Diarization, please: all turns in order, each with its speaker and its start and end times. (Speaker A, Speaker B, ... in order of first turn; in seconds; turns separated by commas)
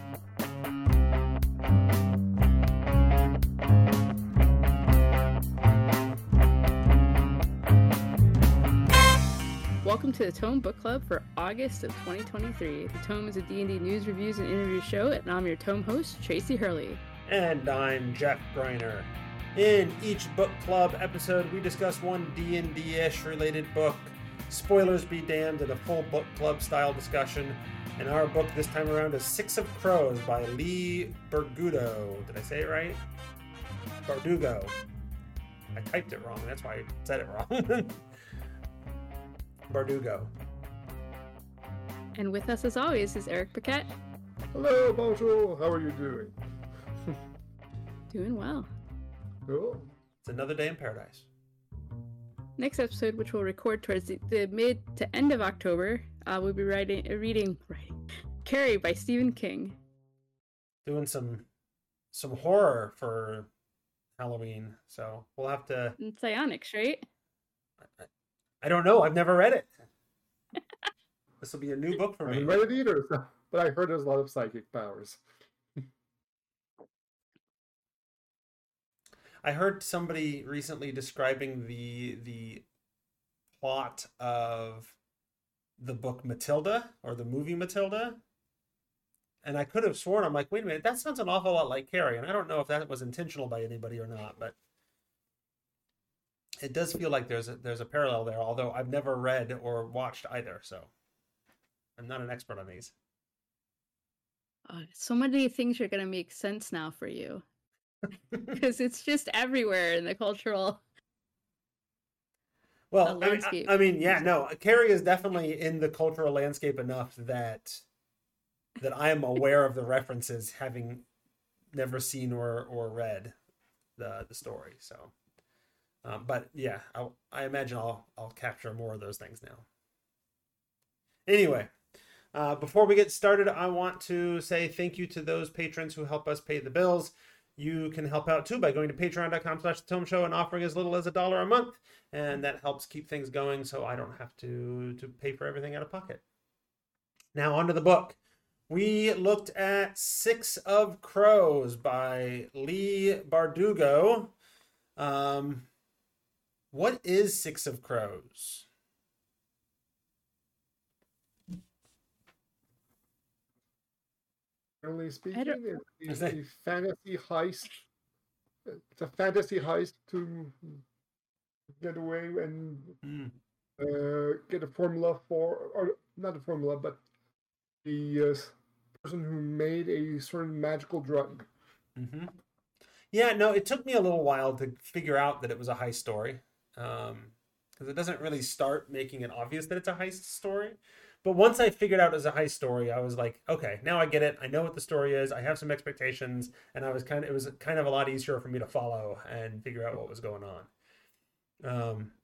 Speaker A: 9.8-17.0, Speaker B: 17.3-33.0, Speaker B: 34.0-34.8, Speaker B: 35.7-38.0, Speaker B: 39.7-40.3, Speaker A: 42.2-43.9, Speaker C: 44.5-46.4, Speaker A: 48.1-48.7, Speaker C: 49.5-49.9, Speaker B: 50.2-51.3, Speaker A: 52.6-59.8, Speaker B: 60.9-61.5, Speaker B: 62.1-63.5, Speaker B: 64.2-66.0, Speaker A: 66.0-67.0, Speaker B: 68.6-69.7, Speaker B: 71.4-72.6, Speaker C: 72.3-75.2, Speaker B: 79.4-82.7, Speaker B: 83.6-85.0, Speaker B: 85.8-88.2, Speaker B: 89.4-94.6, Speaker B: 96.6-100.9, Speaker B: 102.0-102.9, Speaker A: 104.7-107.5, Speaker A: 108.5-110.8, Speaker B: 112.9-117.8, Speaker A: 113.0-114.3, Speaker B: 118.8-121.1, Speaker B: 121.7-123.3, Speaker B: 124.0-125.1, Speaker B: 126.0-129.7, Speaker B: 131.3-131.7, Speaker B: 132.3-146.2, Speaker B: 147.3-148.2, Speaker B: 148.7-154.3, Speaker B: 155.0-155.7, Speaker B: 156.7-158.7, Speaker C: 164.8-167.8, Speaker B: 166.1-166.4, Speaker C: 168.7-170.8, Speaker C: 171.8-173.0, Speaker B: 173.0-173.4, Speaker C: 173.8-177.0, Speaker C: 177.8-181.5, Speaker B: 182.0-182.4, Speaker B: 183.1-200.7, Speaker B: 201.6-202.1